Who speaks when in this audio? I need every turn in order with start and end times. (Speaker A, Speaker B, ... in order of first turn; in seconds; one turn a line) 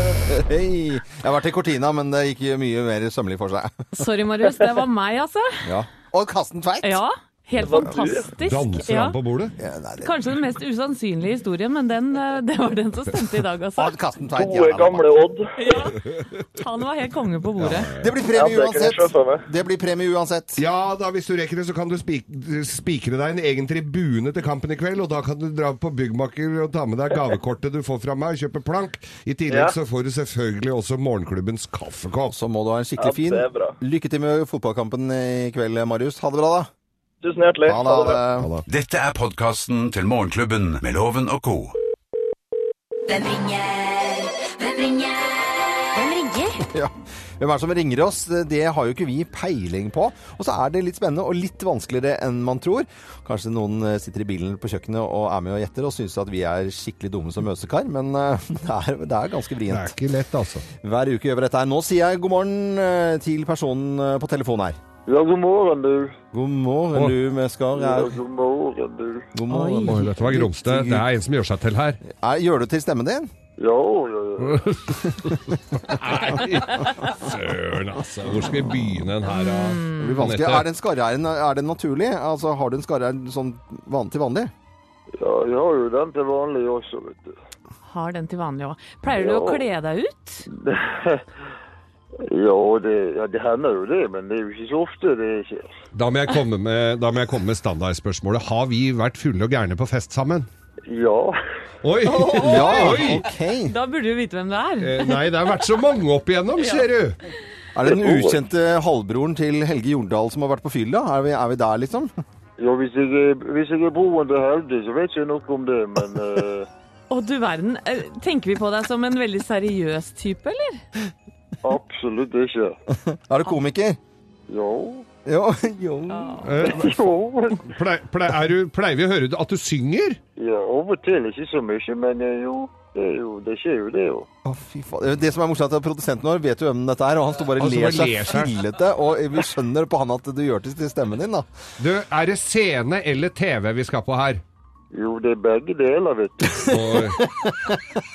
Speaker A: 0.3-3.8
Speaker B: 3.9-5.7
Speaker A: 5.7-7.0
Speaker B: 6.8-9.2
Speaker C: 7.6-8.3
Speaker D: 8.4-9.6
Speaker A: 9.6-10.2
Speaker B: 10.0-14.0
Speaker A: 13.8-15.1
Speaker C: 14.3-15.7
Speaker B: 15.6-17.9
Speaker D: 17.6-18.1
Speaker A: 18.0-20.6
Speaker C: 18.2-19.4
Speaker D: 20.6-32.4
Speaker C: 29.5-29.8
Speaker A: 32.3-36.7
Speaker C: 33.0-33.8
Speaker C: 37.2-38.2
Speaker A: 37.7-38.5
Speaker D: 38.3-38.6
Speaker E: 38.7-41.8
Speaker F: 43.1-46.6
Speaker A: 46.7-60.0
Speaker D: 59.7-60.7
Speaker A: 60.8-64.8
Speaker G: 65.1-66.2
Speaker A: 66.3-68.2
Speaker G: 67.7-69.3
Speaker A: 69.3-71.0
Speaker B: 69.5-70.1
Speaker D: 69.9-72.0
Speaker A: 72.0-73.3
Speaker G: 73.6-74.7
Speaker D: 74.5-80.7
Speaker B: 79.3-80.2
Speaker A: 80.0-84.5
Speaker G: 85.2-87.3
Speaker B: 87.9-90.5
Speaker G: 89.1-89.6
Speaker G: 90.6-91.2
Speaker G: 92.3-95.7
Speaker D: 95.9-100.5
Speaker G: 100.9-101.4
Speaker D: 101.8-103.3
Speaker B: 102.1-103.2
Speaker A: 102.4-103.8
Speaker B: 103.7-105.3
Speaker D: 104.8-107.2
Speaker A: 107.8-112.1
Speaker G: 108.0-108.4
Speaker G: 112.6-116.7
Speaker B: 117.1-120.8
Speaker G: 121.6-122.8
Speaker A: 123.1-124.0
Speaker G: 124.5-125.1
Speaker A: 125.3-126.9
Speaker B: 126.1-126.7
Speaker D: 126.4-127.0
Speaker G: 126.7-127.7
Speaker D: 127.7-130.2
Speaker G: 130.4-134.3
Speaker A: 134.4-141.5
Speaker D: 137.6-138.5
Speaker D: 141.8-144.4
Speaker G: 144.9-147.0
Speaker D: 146.7-147.3
Speaker A: 147.1-147.8